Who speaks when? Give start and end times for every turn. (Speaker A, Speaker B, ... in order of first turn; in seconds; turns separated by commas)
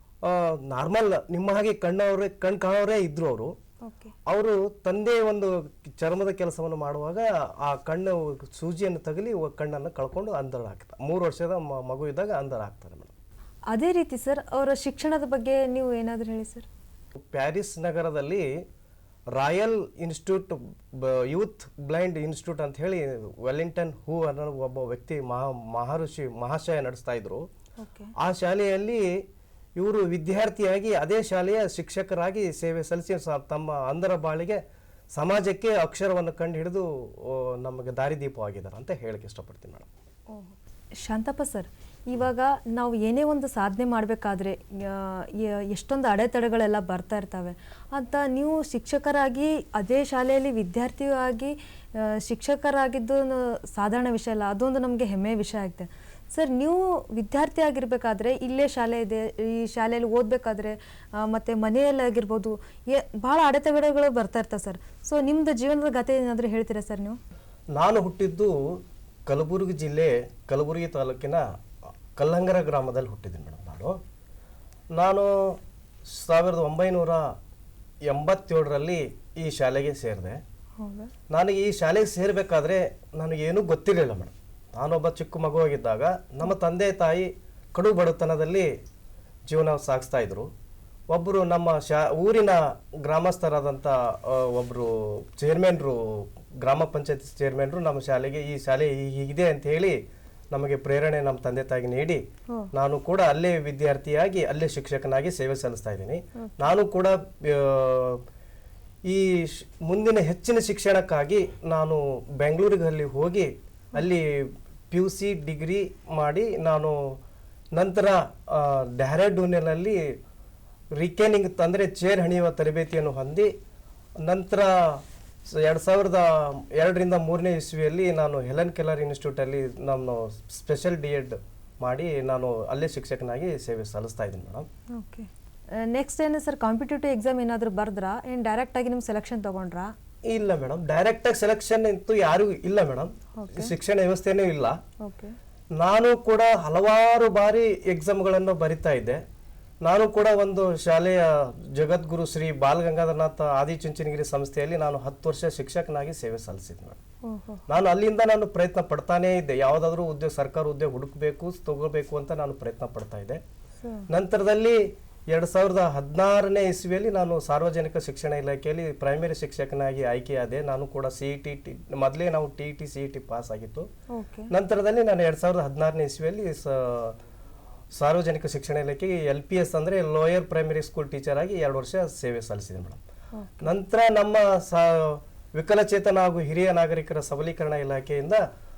Speaker A: 0.2-3.5, Speaker B: 3.8-4.1, Speaker A: 4.2-13.1, Speaker B: 13.7-16.6, Speaker A: 17.2-18.6, Speaker A: 19.3-27.5, Speaker B: 27.8-28.1, Speaker A: 28.2-29.2, Speaker A: 29.8-34.6, Speaker A: 35.1-39.9, Speaker B: 40.3-67.2, Speaker A: 67.7-71.5, Speaker A: 72.2-74.0, Speaker A: 74.9-77.3, Speaker A: 78.0-80.4, Speaker B: 80.8-81.1, Speaker A: 81.3-88.7, Speaker A: 89.5-90.5, Speaker A: 91.1-100.0, Speaker A: 100.5-108.2, Speaker B: 106.4-106.6, Speaker A: 109.0-117.2, Speaker A: 117.7-120.2, Speaker A: 120.9-123.5, Speaker A: 124.2-134.7, Speaker B: 134.9-139.9, Speaker A: 140.3-144.8, Speaker B: 143.3-143.7, Speaker B: 145.0-145.3, Speaker A: 145.8-149.2, Speaker A: 149.8-157.0, Speaker B: 157.2-157.7, Speaker A: 157.7-163.4, Speaker B: 163.8-164.1, Speaker A: 164.1-173.9, Speaker B: 174.1-174.5, Speaker A: 174.5-177.2, Speaker A: 177.9-183.0, Speaker B: 183.3-183.7, Speaker A: 183.6-188.4